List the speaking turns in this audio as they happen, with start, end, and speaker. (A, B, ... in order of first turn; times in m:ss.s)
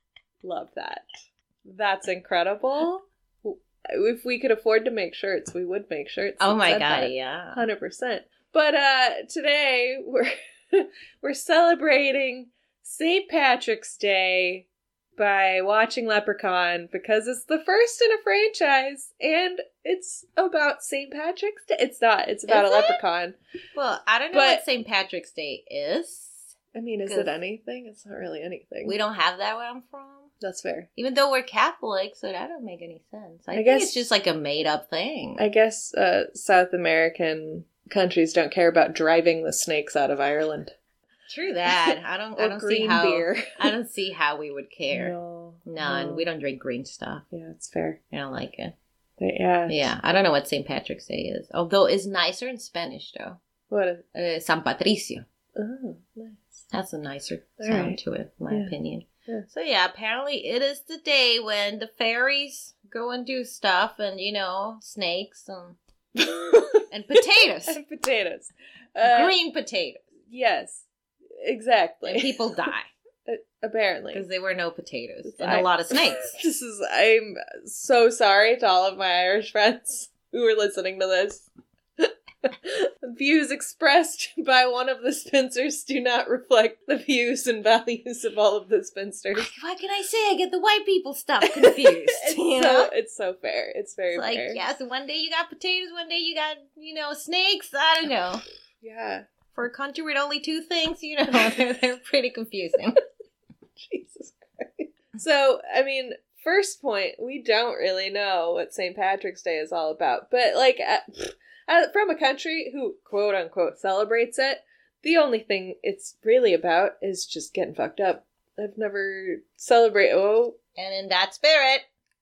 0:00.4-0:01.1 A
0:01.6-0:23.4 A
0:06.4-0:07.6 B
0:22.5-0:23.0 B
0:23.8-0:26.5 B
0:24.3-0:24.6 A
0:26.7-0:29.0 A
0:27.1-0:27.4 B
0:28.8-0:30.3 B
0:30.4-0:30.9 A
0:31.0-0:35.4 B
0:33.5-0:34.0 A
0:35.4-0:40.7 A
0:41.3-0:47.2 B
0:41.7-0:43.7 A
0:44.9-0:46.3 A
0:47.3-0:48.0 A
0:48.1-0:48.8 B
0:49.2-0:50.0 A
0:49.7-0:53.4 B
0:53.7-0:54.0 A
0:54.1-0:55.2 B
0:55.6-0:56.6 A
0:56.7-1:05.8 B
0:57.6-0:58.0 A
1:06.2-1:09.4 A
1:06.9-1:07.8 B
1:09.0-1:10.0 B
1:10.3-1:10.8 A
1:11.4-1:12.7 A
1:12.0-1:12.9 B
1:13.3-1:14.2 A
1:14.1-1:16.4 B
1:15.2-1:21.5 A
1:22.0-1:29.5 A
1:29.4-1:32.9 B
1:31.4-1:34.6 A
1:34.1-1:38.4 B
1:38.8-1:39.2 A
1:39.5-1:43.0 B
1:41.3-1:41.6 A
1:43.8-2:00.6 A
2:00.8-2:01.9 B